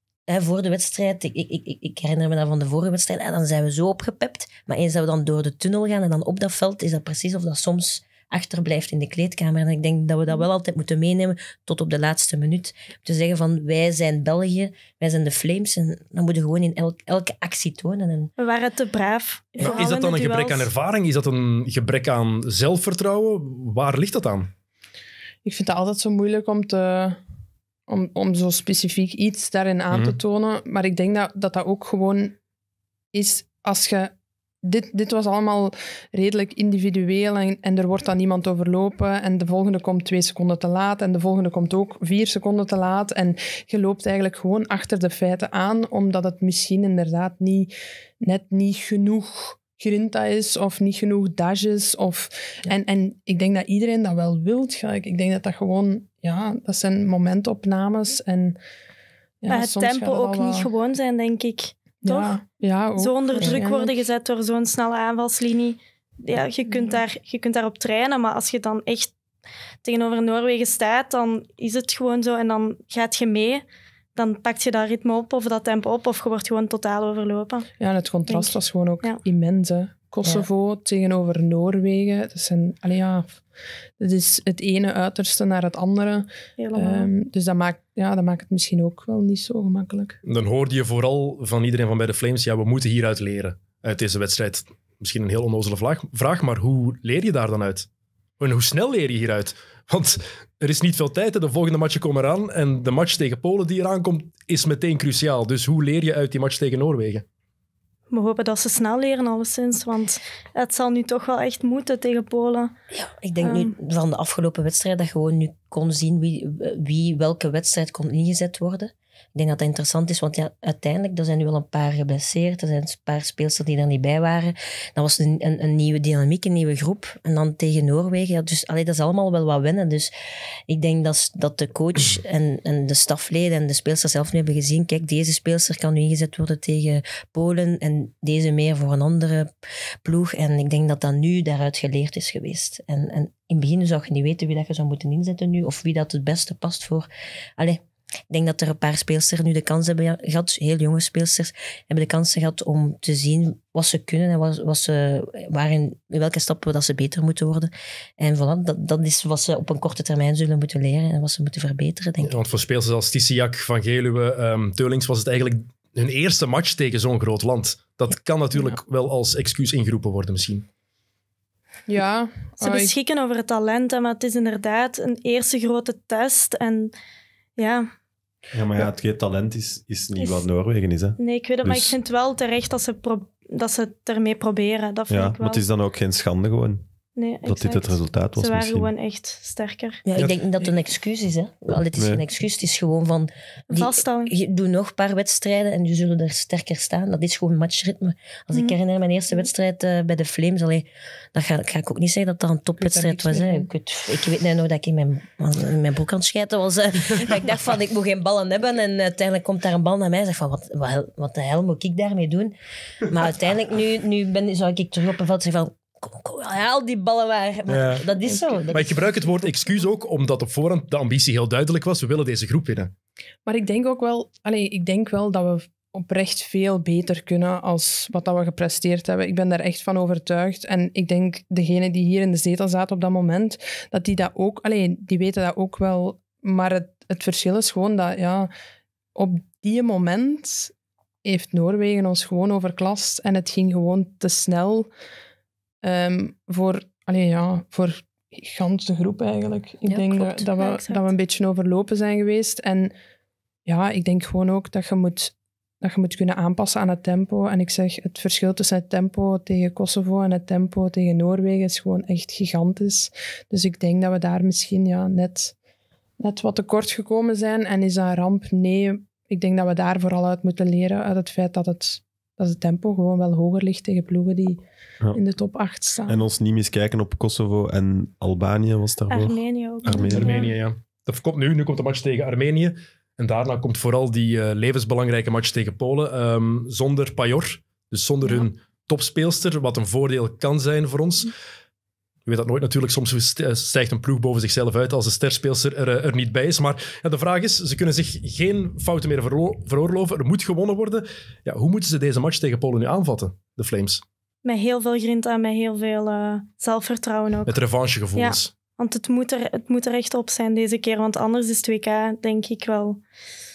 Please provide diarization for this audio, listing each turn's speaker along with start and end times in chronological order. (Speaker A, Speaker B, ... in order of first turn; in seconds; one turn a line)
Speaker A: 0.3-18.3
Speaker B: 18.4-20.7
Speaker C: 19.6-24.5
Speaker D: 25.4-27.2
Speaker D: 27.9-32.4
Speaker C: 29.9-30.1
Speaker D: 33.1-58.6
Speaker D: 59.4-60.7
Speaker B: 59.5-62.4
Speaker D: 62.0-64.0
Speaker B: 63.0-69.1
Speaker A: 63.4-63.6
Speaker D: 66.7-67.0
Speaker B: 69.8-73.6
Speaker B: 74.1-77.7
Speaker D: 77.8-83.4
Speaker B: 78.3-79.2
Speaker D: 84.0-90.2
Speaker B: 86.6-87.1
Speaker C: 90.2-97.9
Speaker C: 98.4-107.2
Speaker B: 108.1-112.7
Speaker A: 112.9-130.1
Speaker B: 113.4-113.8
Speaker A: 130.7-139.5
Speaker A: 140.0-162.4
Speaker C: 162.2-170.6
Speaker D: 171.9-172.9
Speaker B: 172.6-176.9
Speaker B: 177.6-177.9
Speaker E: 178.5-182.0
Speaker B: 180.2-180.4
Speaker B: 181.2-185.6
Speaker E: 185.1-186.8
Speaker B: 187.2-190.0
Speaker E: 187.4-188.9
Speaker A: 190.1-219.1
Speaker C: 190.2-190.7
Speaker E: 192.0-192.2
Speaker B: 193.7-194.3
Speaker B: 198.5-198.8
Speaker D: 202.8-203.7
Speaker C: 217.7-218.0
Speaker D: 218.3-218.6
Speaker C: 218.7-222.9
Speaker D: 223.4-238.5
Speaker D: 239.1-240.7
Speaker D: 241.2-244.9
Speaker D: 245.8-252.9
Speaker B: 250.3-251.1
Speaker D: 253.7-265.5
Speaker D: 266.2-276.2
Speaker E: 276.1-280.4
Speaker B: 279.1-280.5
Speaker D: 279.9-280.4
Speaker C: 280.0-291.3
Speaker C: 292.2-304.0
Speaker B: 304.4-307.6
Speaker C: 307.5-308.5
Speaker B: 308.1-313.0